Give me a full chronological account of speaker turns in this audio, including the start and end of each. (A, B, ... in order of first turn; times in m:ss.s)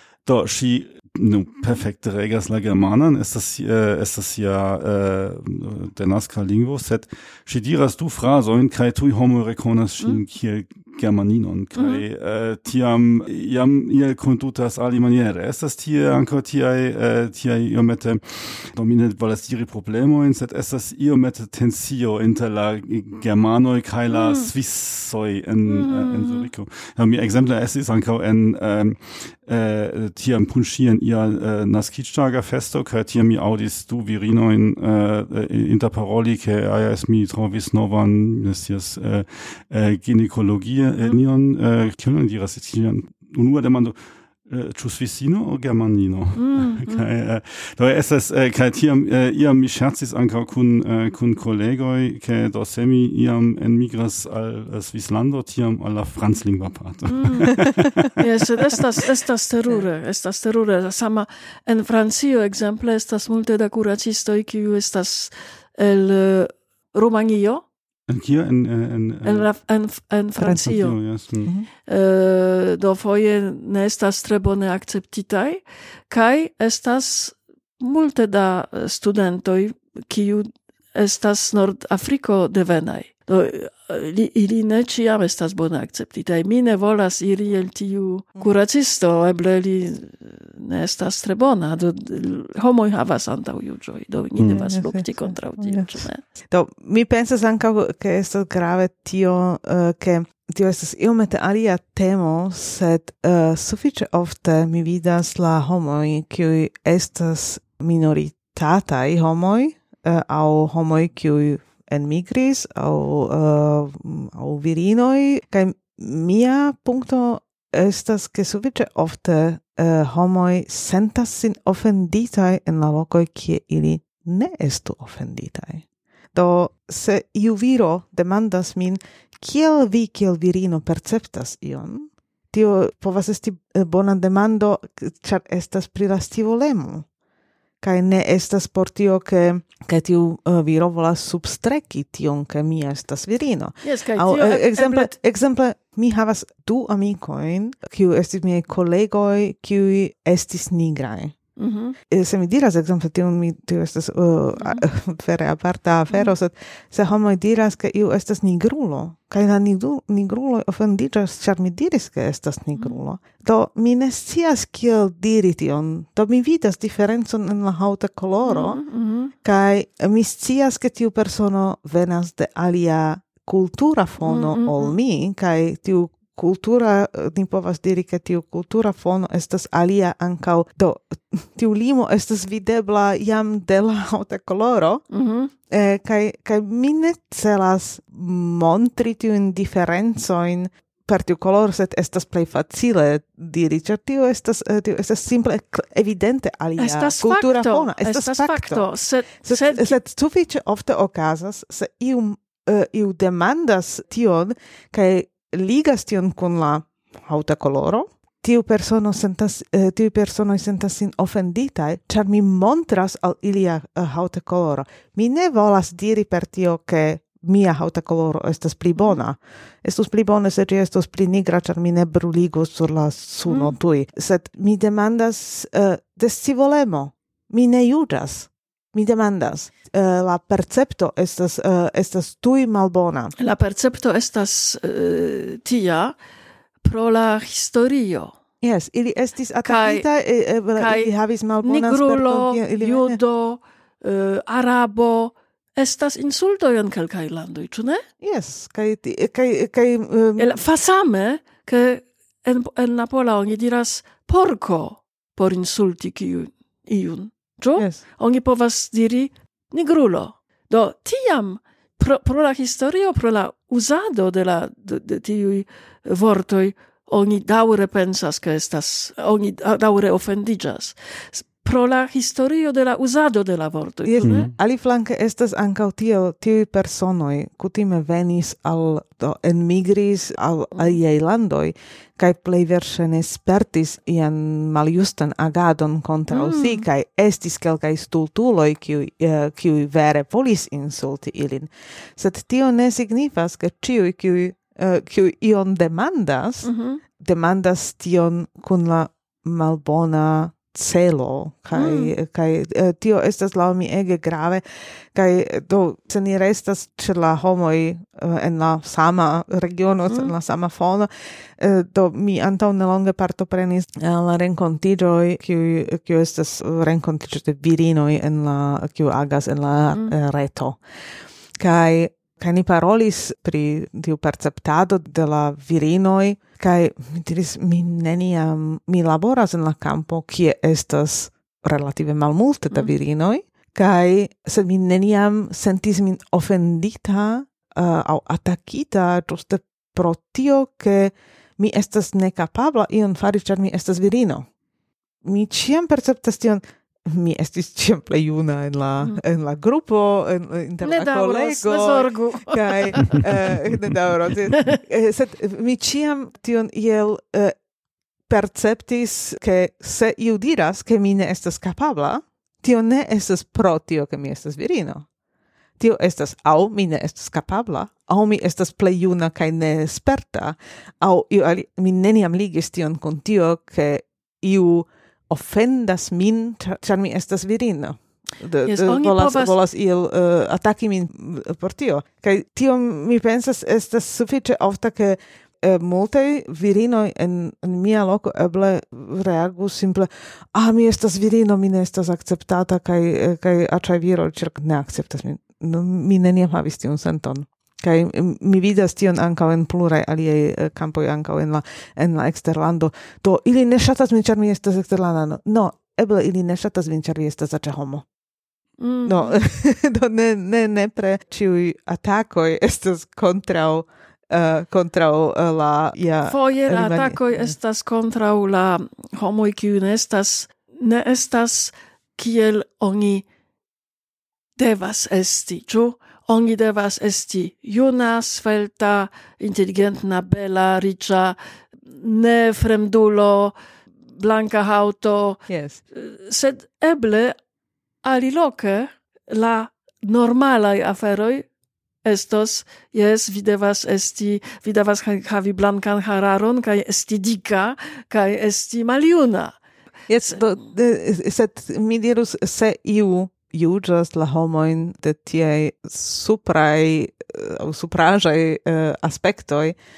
0:00.2-0:44.0 A
0:11.8-0:12.0 B
0:24.1-0:24.5 B
0:25.6-0:26.5 B
0:44.5-0:58.2 A
0:46.4-0:47.1 B
0:57.1-0:57.6 B
0:58.2-1:07.6 B
1:08.1-1:09.5 A
1:09.2-1:11.0 B
1:10.4-1:10.7 C
1:10.5-1:11.5 A
1:11.9-1:36.2 B
1:34.4-1:34.6 A
1:34.5-2:17.0 C
2:17.8-2:31.4 C
2:23.8-2:25.1 B
2:31.6-2:32.0 B
2:32.1-2:48.8 C
2:48.4-2:49.3 B
2:49.4-3:05.0 C
2:54.2-2:55.0 B
3:05.1-3:05.5 B
3:05.7-3:18.9 C
3:16.8-3:20.0 B
3:19.4-3:53.3 C
3:43.5-3:43.7 B
3:53.4-3:56.1 B
3:56.8-3:58.4 B
3:58.6-4:03.2 C
3:59.6-4:00.1 B
4:00.8-4:01.1 B
4:01.6-4:08.0 B
4:08.2-4:10.6 C
4:10.4-4:34.5 B
4:17.8-4:18.0 C
4:34.0-5:20.8 C
4:34.2-4:34.5 A
4:46.3-4:46.9 B
4:56.6-4:57.0 B
5:01.7-5:02.1 B
5:21.6-5:44.5 C
5:45.2-5:57.6 C
5:50.8-5:53.4 B
5:54.5-5:54.8 B
5:58.3-6:05.1 C
6:05.8-6:48.1 C
6:18.6-6:19.6 B
6:48.8-6:49.4 B
6:49.0-6:57.5 C
6:56.3-7:03.2 B
7:04.6-7:11.4 B
7:11.9-7:13.6 B
7:14.2-7:15.4 B
7:15.5-7:15.8 C
7:15.9-7:17.4 B
7:18.0-7:21.5 B
7:22.0-7:29.6 B
7:30.1-7:39.8 C